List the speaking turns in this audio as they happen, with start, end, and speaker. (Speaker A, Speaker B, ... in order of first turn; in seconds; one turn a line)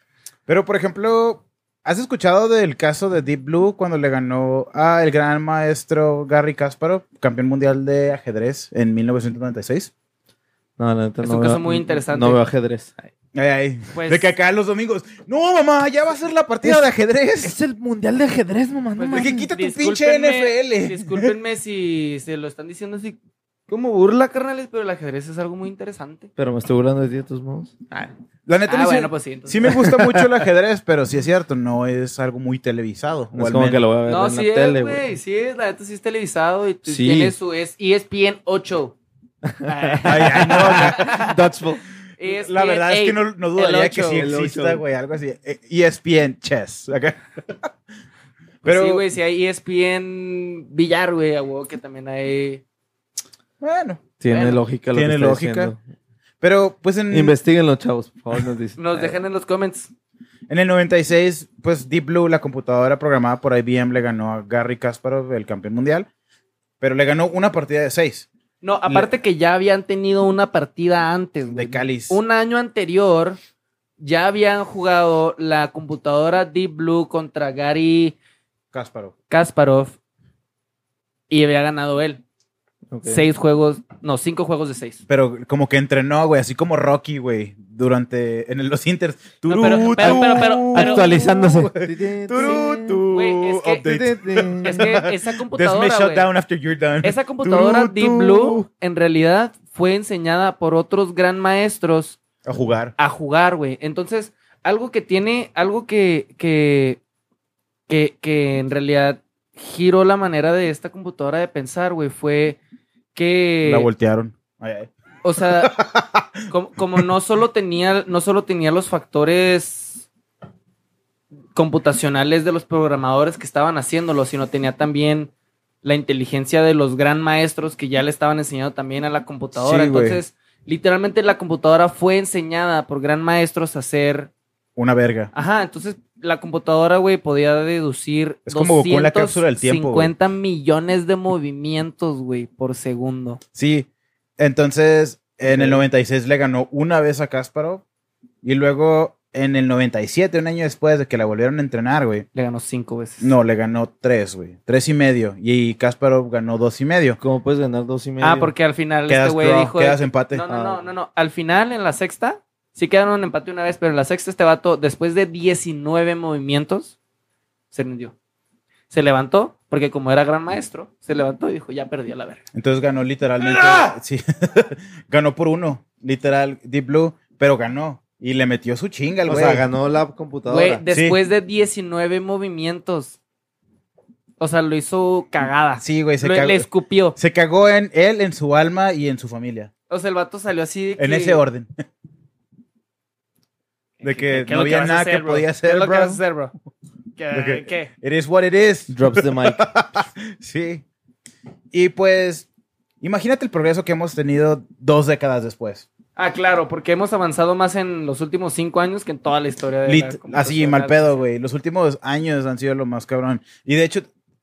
Speaker A: 0.5-9.9
Speaker B: 10.8-13.1
Speaker C: 11.2-12.4
Speaker A: 13.3-17.5
Speaker C: 13.9-14.3
Speaker B: 17.4-19.5
Speaker C: 19.0-26.3
Speaker A: 19.1-21.3
Speaker B: 26.4-27.8
Speaker A: 28.4-33.8
Speaker C: 28.6-29.8
Speaker B: 29.7-30.2
Speaker B: 33.3-35.0
Speaker C: 34.0-39.0
Speaker B: 36.9-37.3
Speaker B: 39.4-41.8
Speaker C: 39.6-41.4
Speaker A: 40.0-41.1
Speaker C: 42.2-44.3
Speaker A: 42.2-47.7
Speaker B: 44.1-44.8
Speaker A: 48.6-49.0
Speaker C: 48.6-52.6
Speaker A: 53.6-54.0
Speaker B: 54.2-55.8
Speaker C: 54.3-54.6
Speaker A: 54.9-55.7
Speaker A: 56.4-57.4
Speaker B: 57.1-59.2
Speaker C: 58.8-59.9
Speaker A: 60.5-66.1
Speaker A: 66.8-68.3
Speaker C: 68.6-73.4
Speaker A: 71.5-72.2
Speaker C: 74.0-78.2
Speaker A: 78.7-79.1
Speaker C: 79.3-80.0
Speaker C: 81.3-82.2
Speaker B: 82.9-83.2
Speaker C: 83.0-85.0
Speaker A: 85.1-98.7
Speaker C: 89.5-91.3
Speaker B: 89.9-93.0
Speaker C: 93.1-93.8
Speaker B: 93.8-95.0
Speaker C: 94.6-96.3
Speaker C: 97.0-102.2
Speaker A: 102.4-102.9
Speaker C: 103.0-107.0
Speaker C: 107.9-112.6
Speaker C: 113.1-113.9
Speaker A: 113.6-116.4
Speaker C: 115.2-115.7
Speaker C: 116.5-120.0
Speaker C: 121.5-125.3
Speaker C: 125.8-134.3
Speaker A: 129.6-130.2
Speaker A: 134.8-135.3
Speaker C: 135.3-143.4
Speaker A: 138.5-140.1
Speaker A: 143.5-143.9
Speaker A: 144.4-147.8
Speaker A: 148.4-152.3
Speaker C: 152.3-153.3
Speaker A: 153.2-157.2
Speaker B: 157.2-158.5
Speaker C: 158.2-166.9
Speaker A: 159.1-160.4
Speaker B: 160.4-160.8
Speaker C: 167.7-168.1
Speaker C: 168.9-172.4
Speaker A: 172.5-179.6
Speaker C: 173.4-173.9
Speaker B: 179.2-180.8
Speaker C: 180.5-183.2
Speaker A: 180.9-181.2
Speaker C: 184.4-187.2
Speaker A: 185.8-189.7
Speaker C: 189.9-191.4
Speaker A: 191.0-191.7
Speaker C: 194.0-196.5
Speaker A: 194.0-196.2
Speaker C: 197.2-197.9
Speaker A: 197.3-200.8
Speaker B: 198.9-199.7
Speaker A: 201.7-202.5
Speaker A: 203.0-205.9
Speaker C: 206.2-211.2
Speaker A: 209.8-214.1